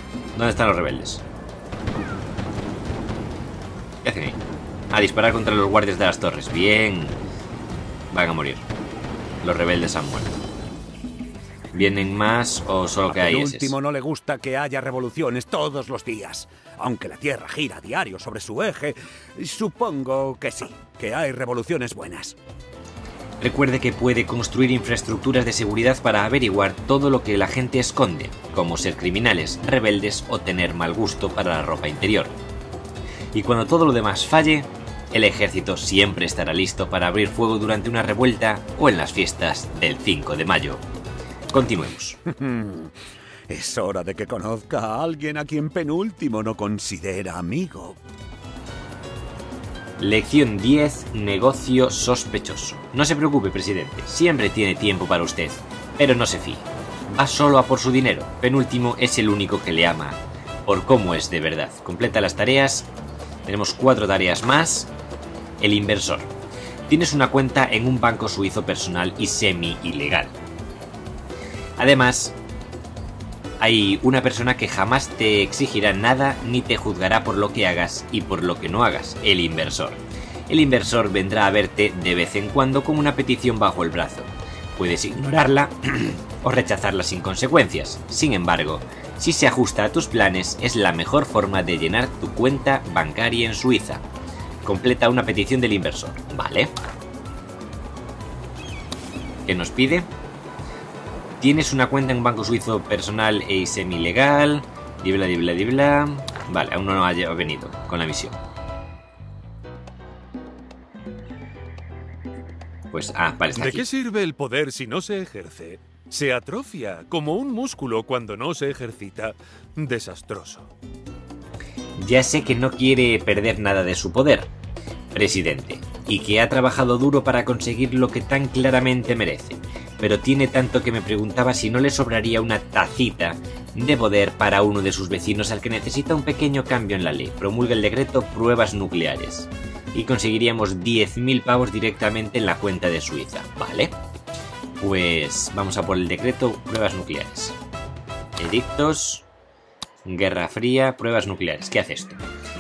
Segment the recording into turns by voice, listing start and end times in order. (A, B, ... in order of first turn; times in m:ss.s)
0:00.4-0:01.2 A
0:04.0-0:04.4 A
0:04.9-0:07.2 A
0:08.1-0:08.6 A
0:09.4-0:10.4 A
0:11.7-0:13.8 A
0:13.1-0:22.4 B
0:23.4-0:32.4 A
0:33.3-0:40.8 A
0:41.5-0:42.2 A
0:42.3-0:42.9 B
0:43.5-0:48.0 B
0:50.0-1:02.9 A
1:03.5-1:04.9 A
1:05.6-1:06.3 A
1:06.9-1:10.3 A
1:11.8-1:12.4 A
1:13.6-1:34.0 A
1:34.6-1:36.7 A
1:39.5-1:40.1 A
1:41.4-1:48.4 A
1:52.9-1:53.8 A
1:53.6-2:00.7 C
2:02.0-2:04.5 A
2:05.1-2:23.9 A
2:24.8-2:27.6 A
2:28.4-2:29.3 A
2:30.0-2:32.2 A